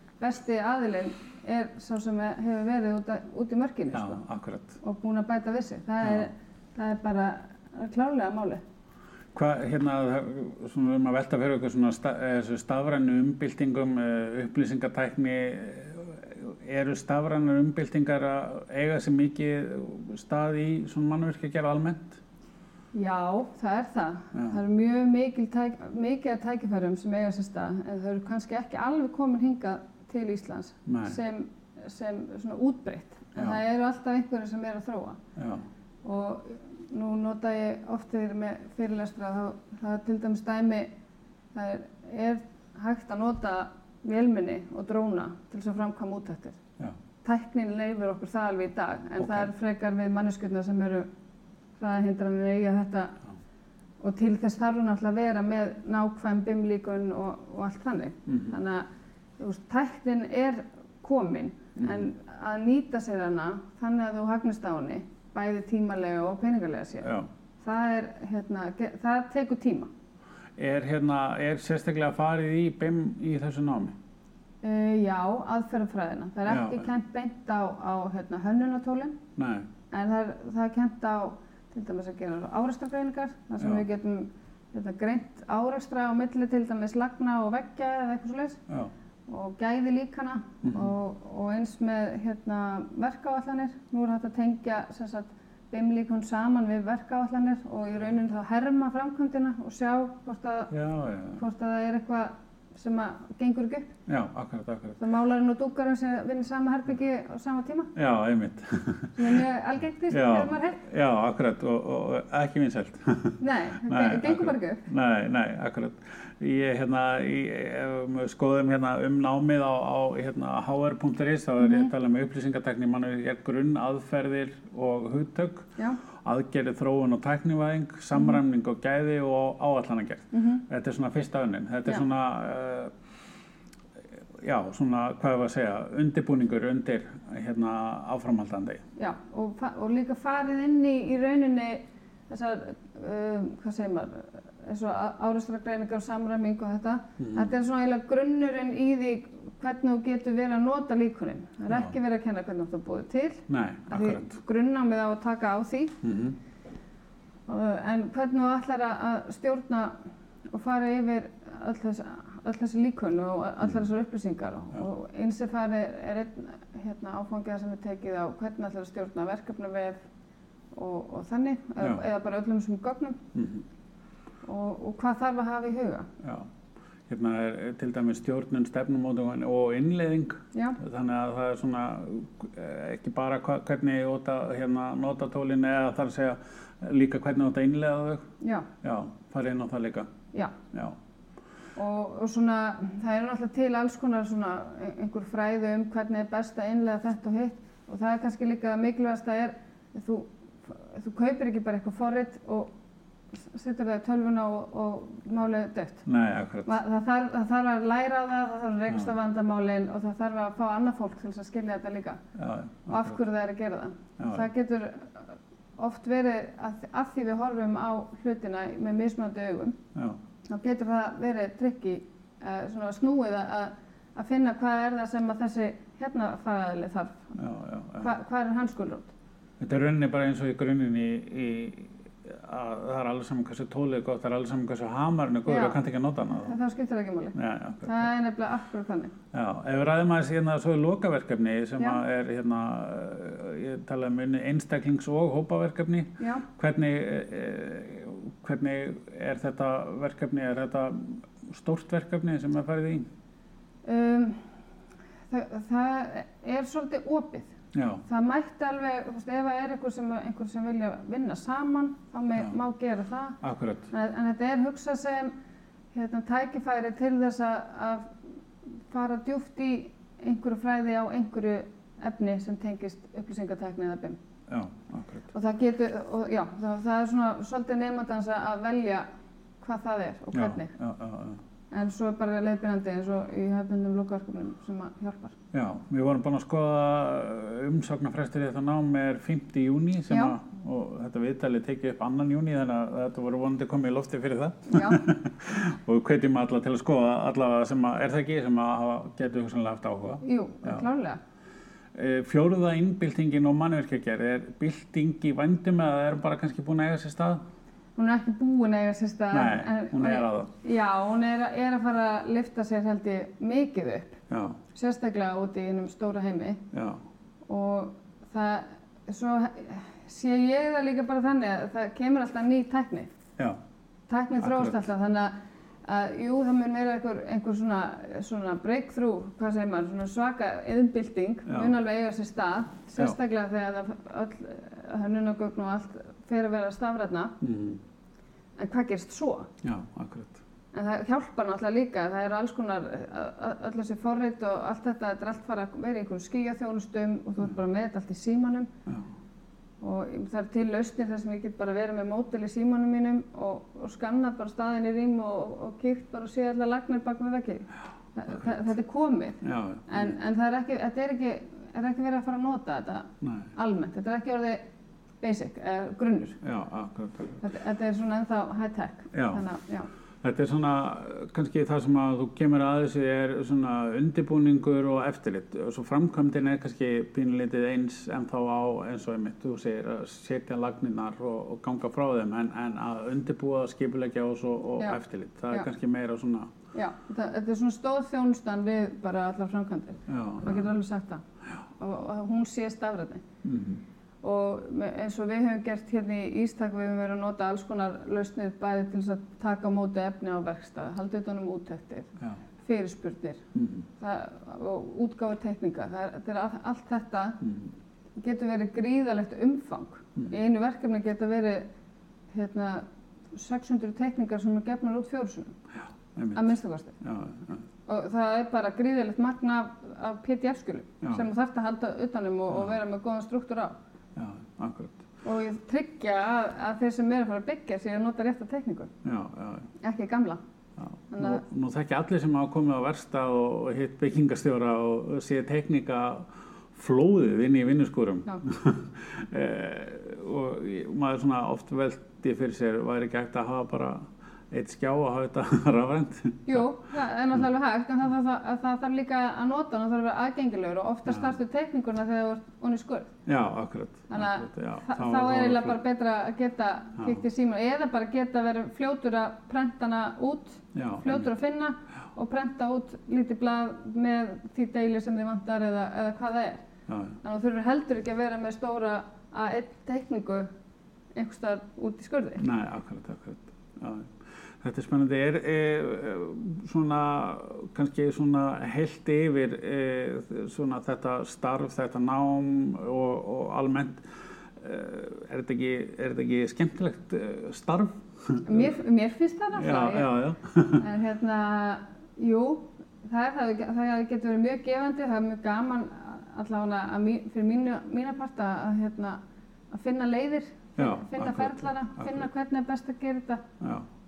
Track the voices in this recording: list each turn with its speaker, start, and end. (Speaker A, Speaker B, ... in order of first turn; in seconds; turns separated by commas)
Speaker A: 0.2-4.2, Speaker B: 3.9-4.8, Speaker A: 4.8-8.6, Speaker B: 6.0-6.3, Speaker B: 9.3-22.2, Speaker A: 22.9-35.2, Speaker B: 24.3-24.6, Speaker B: 30.9-31.2, Speaker B: 35.4-35.6, Speaker A: 36.0-40.9, Speaker A: 41.5-46.6, Speaker A: 47.2-51.1, Speaker B: 49.2-49.5, Speaker A: 51.8-53.2, Speaker A: 54.0-58.9, Speaker B: 58.3-58.6, Speaker A: 59.4-69.9, Speaker B: 61.8-62.1, Speaker B: 70.6-74.0, Speaker A: 74.6-79.2, Speaker B: 76.5-76.9, Speaker B: 79.4-79.7, Speaker A: 79.9-88.6, Speaker A: 89.3-100.7, Speaker B: 90.6-90.9, Speaker B: 100.7-101.4, Speaker A: 101.3-103.9, Speaker B: 104.1-105.0, Speaker A: 105.0-107.9, Speaker B: 108.0-109.4, Speaker A: 109.2-110.8, Speaker B: 110.1-125.7, Speaker A: 113.4-114.8, Speaker A: 121.6-121.9, Speaker B: 126.2-132.9, Speaker A: 128.1-128.4, Speaker A: 130.3-130.6, Speaker B: 134.4-138.8, Speaker A: 139.0-156.0, Speaker B: 147.2-147.5, Speaker B: 153.5-154.3, Speaker B: 156.0-156.4, Speaker A: 157.5-160.0, Speaker A: 160.5-170.0, Speaker A: 170.7-173.2, Speaker B: 173.3-173.6, Speaker A: 174.4-176.1, Speaker B: 176.2-176.5, Speaker B: 177.1-188.2, Speaker A: 180.5-180.8, Speaker A: 188.4-188.7, Speaker B: 188.8-190.1, Speaker A: 191.8-202.7, Speaker A: 203.3-206.1, Speaker B: 206.1-206.8, Speaker A: 206.7-212.2, Speaker B: 212.4-213.2, Speaker A: 212.9-219.8, Speaker B: 214.2-214.5, Speaker A: 220.5-227.4, Speaker B: 227.4-228.1, Speaker A: 228.0-229.1, Speaker B: 229.6-236.5, Speaker A: 235.5-235.8, Speaker A: 236.4-239.1, Speaker B: 237.3-238.1, Speaker B: 239.3-253.1, Speaker A: 246.2-246.5, Speaker A: 253.8-254.5, Speaker A: 255.3-257.5, Speaker B: 257.7-258.0, Speaker A: 258.1-263.4, Speaker B: 263.4-263.9, Speaker A: 263.9-265.3, Speaker A: 265.9-268.2, Speaker A: 268.9-274.2, Speaker B: 274.5-275.3, Speaker A: 275.3-279.1, Speaker A: 279.6-280.7, Speaker B: 280.3-281.4, Speaker A: 281.7-285.4, Speaker B: 285.5-300.9, Speaker A: 290.1-290.4, Speaker A: 294.7-295.0, Speaker A: 300.2-301.2, Speaker B: 301.9-307.4, Speaker A: 308.0-314.2, Speaker B: 309.3-310.5, Speaker B: 314.3-314.6, Speaker A: 314.7-316.6, Speaker B: 316.7-317.0, Speaker A: 317.5-323.1, Speaker A: 324.1-325.3, Speaker B: 324.4-324.8, Speaker A: 325.9-337.4, Speaker B: 331.5-331.8, Speaker B: 337.4-337.8, Speaker A: 338.6-339.5, Speaker B: 339.6-340.4, Speaker A: 340.7-348.7, Speaker A: 349.8-364.6, Speaker B: 358.3-358.6, Speaker B: 359.4-360.1, Speaker B: 363.2-363.5, Speaker A: 365.2-366.4, Speaker B: 366.4-367.4, Speaker A: 367.4-369.9, Speaker B: 369.1-369.4, Speaker B: 370.2-386.5, Speaker A: 386.7-391.2, Speaker B: 390.1-390.7, Speaker A: 391.8-393.2, Speaker B: 393.4-393.8, Speaker A: 394.2-402.1, Speaker A: 402.6-403.4, Speaker B: 403.6-403.9, Speaker A: 404.0-407.4, Speaker B: 407.4-407.7, Speaker A: 408.2-411.6, Speaker A: 412.3-415.6, Speaker B: 416.1-417.6, Speaker A: 416.4-417.0, Speaker A: 417.9-423.8, Speaker B: 422.5-422.8, Speaker B: 424.2-425.0, Speaker A: 425.2-428.9, Speaker B: 429.0-429.7, Speaker A: 429.8-430.4, Speaker B: 430.8-446.7, Speaker A: 431.1-431.4, Speaker A: 446.5-453.1, Speaker B: 453.3-455.8, Speaker A: 454.1-466.6, Speaker B: 460.8-461.3, Speaker B: 466.9-467.2, Speaker A: 467.2-470.5, Speaker A: 471.1-472.5, Speaker B: 472.4-484.1, Speaker B: 484.6-488.8, Speaker A: 488.4-499.2, Speaker B: 489.6-490.8, Speaker A: 499.7-503.4, Speaker B: 500.8-502.3, Speaker B: 503.6-503.9